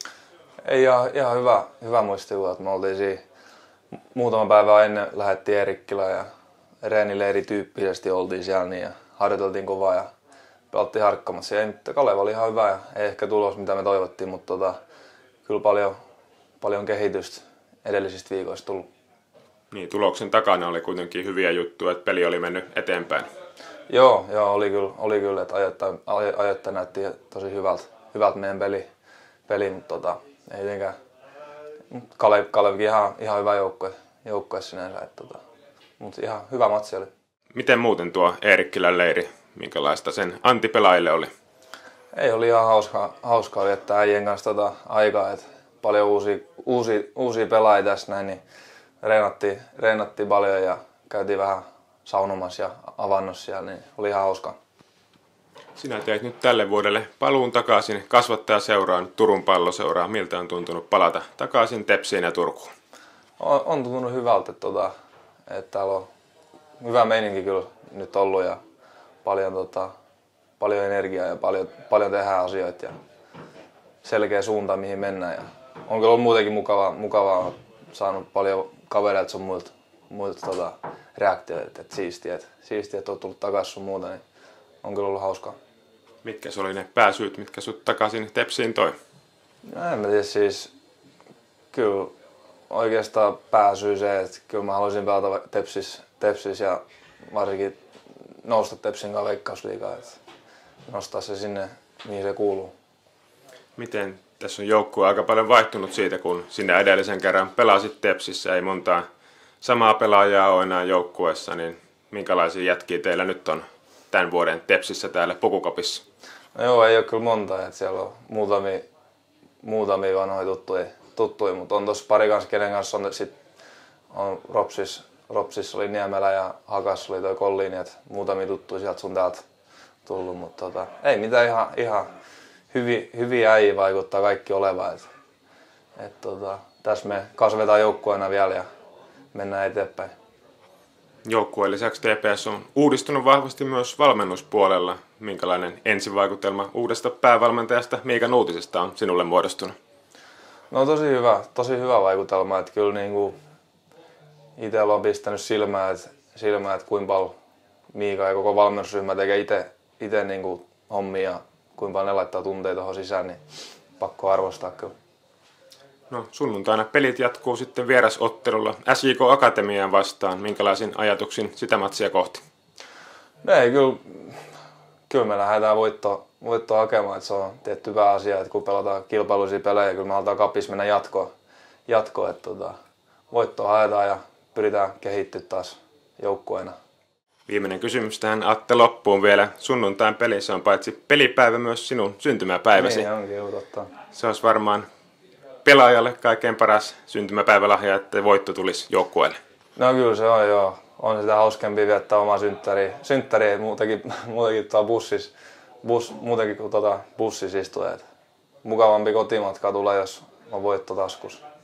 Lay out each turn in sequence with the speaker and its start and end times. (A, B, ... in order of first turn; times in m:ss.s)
0:00.6-0:03.2 A
0:04.1-0:06.3 A
0:06.8-0:10.1 A
0:10.7-0:14.8 A
0:15.4-0:16.0 A
0:16.6-0:18.9 A
0:19.7-0:23.3 B
0:23.9-0:28.9 A
0:29.5-0:31.0 A
0:31.9-0:35.4 A
0:36.0-0:37.1 A
0:37.5-0:41.3 B
0:42.1-0:48.4 A
0:49.0-0:54.6 A
0:55.8-1:02.7 B
1:03.4-1:04.9 A
1:05.5-1:06.1 A
1:06.8-1:08.6 A
1:09.2-1:09.9 A
1:10.6-1:12.9 A
1:14.0-1:24.2 A
1:24.8-1:25.6 A
1:26.2-1:28.9 B
1:29.7-1:30.7 A
1:31.7-1:32.1 A
1:32.7-1:37.8 A
1:38.4-1:40.2 A
1:40.8-1:42.7 A
1:43.8-1:49.1 B
1:49.6-1:56.0 B
1:56.6-1:58.8 A
1:59.6-2:03.4 A
2:04.1-2:09.4 A
2:10.0-2:12.1 A
2:12.7-2:15.1 A
2:16.0-2:18.7 A
2:19.3-2:20.1 A
2:21.2-2:29.8 B
2:30.7-2:33.3 A
2:34.6-2:37.3 A
2:37.9-2:43.4 A
2:44.0-2:44.9 A
2:46.1-2:52.4 B
2:53.4-2:54.4 A
2:55.1-3:01.3 A
3:01.9-3:02.8 A
3:03.3-3:06.8 A
3:07.5-3:13.1 B
3:12.8-3:13.9 A
3:14.1-3:14.9 B
3:15.6-3:19.4 B
3:19.8-3:25.3 A
3:25.8-3:28.0 A
3:28.6-3:31.4 A